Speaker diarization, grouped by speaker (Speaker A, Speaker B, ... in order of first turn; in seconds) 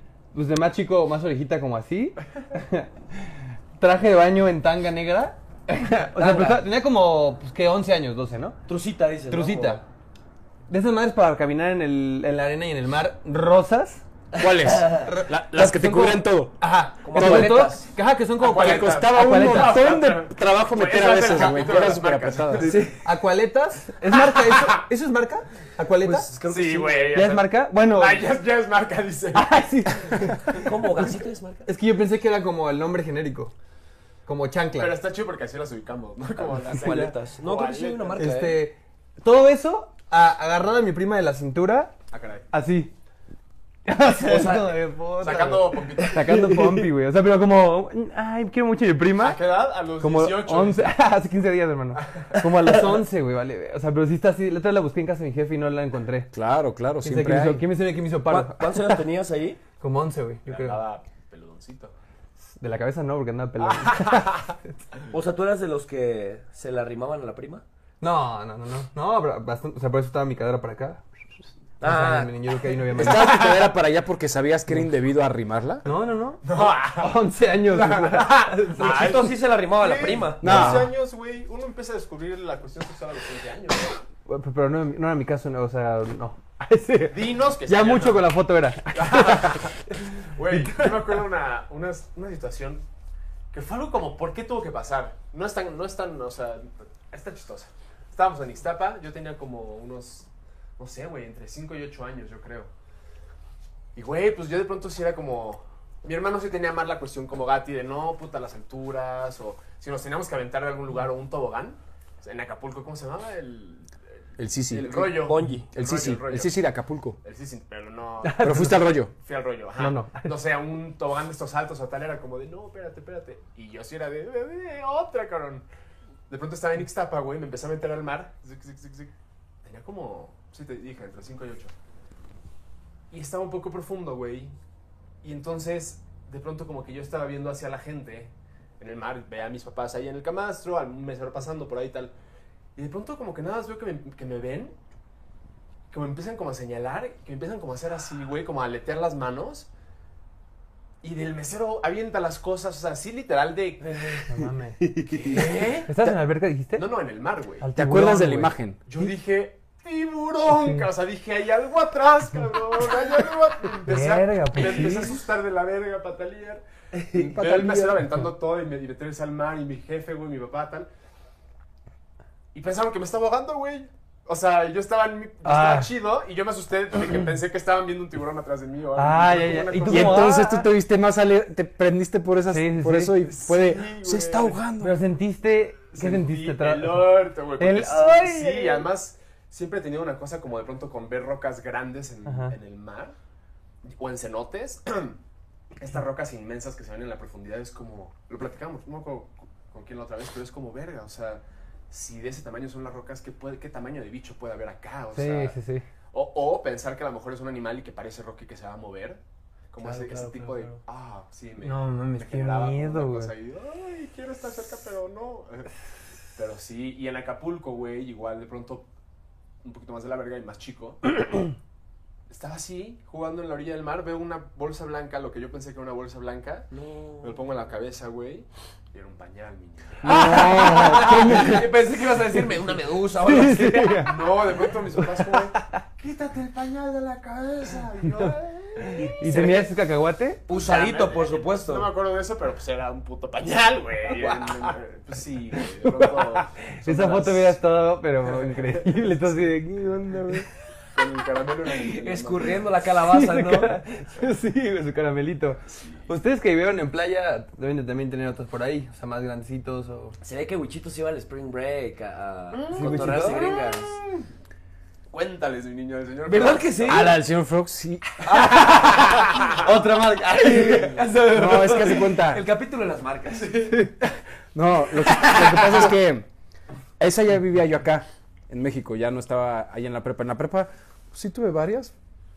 Speaker A: 0.3-8.6, 9.3-9.8, 10.7-14.0, 15.0-19.8, 22.6-26.3, 27.1-28.3, 29.3-31.1, 31.6-33.5, 34.2-35.0, 38.1-42.0, 42.5-42.9, 43.9-49.4, 50.0-56.3, 57.0-59.0, 59.8-60.8, 62.6-64.4, 68.0-71.0, 71.8-73.6, 75.8-79.2, 80.4-80.8, 84.2-89.7, 90.5-90.9, 118.2-118.8, 119.8-120.3, 154.1-154.8, 155.8-156.8, 157.6-158.5, 160.4-160.9, 163.8-165.2, 175.4-175.9, 178.9-180.7, 182.5-183.3, 184.8-188.9, 192.2-192.5, 205.1-205.8, 211.6-213.3, 230.0-231.7, 233.2-234.5, 238.8-240.4, 245.6-250.5, 252.9-260.2, 262.7-263.6, 268.3-271.1
Speaker B: 6.1-6.6, 8.7-9.8, 14.4-15.1, 17.0-17.9, 22.6-22.9, 26.0-27.2, 30.5-31.7, 36.7-38.6, 44.1-44.8, 58.3-59.6, 65.1-67.6, 71.8-73.1, 78.8-80.8, 114.8-115.7, 154.8-155.4, 209.8-210.7, 226.7-227.4, 230.4-234.1, 240.5-241.9, 251.7-253.7, 260.2-264.0, 266.2-267.1, 268.3-269.1, 270.4-273.8
Speaker C: 14.4-16.6, 17.1-17.7, 18.4-22.7, 56.3-57.6, 72.9-75.9, 80.4-80.9, 114.4-115.1, 115.6-117.2, 118.4-119.1, 157.7-158.8, 167.2-168.2, 179.9-185.0, 230.1-231.0, 266.8-268.3, 271.3-272.4, 274.5-276.3, 277.0-281.9
Speaker D: 18.4-22.9, 24.1-24.7, 26.4-30.6, 34.8-38.3, 42.1-42.4, 45.2-46.3, 49.2-50.9, 52.0-52.4, 60.5-61.9, 63.6-64.5, 76.4-84.0, 87.1-88.2, 88.9-92.8, 93.5-102.7, 103.9-116.6, 117.2-125.7, 126.3-129.1, 129.6-131.7, 133.1-134.6, 135.2-142.1, 142.8-144.8, 145.9-149.7, 151.0-154.2, 155.2-155.9, 156.8-157.7, 158.8-170.9, 172.5-180.4, 183.2-184.6, 185.9-193.2, 193.8-195.2, 195.8-205.6, 206.1-209.2, 209.7-215.7, 216.3-218.9, 219.6-221.4, 222.3-226.7, 227.2-232.5, 233.9-239.7, 240.5-247.6, 250.9-252.7, 255.7-256.0, 262.5-264.2, 265.1-267.1, 268.3-269.7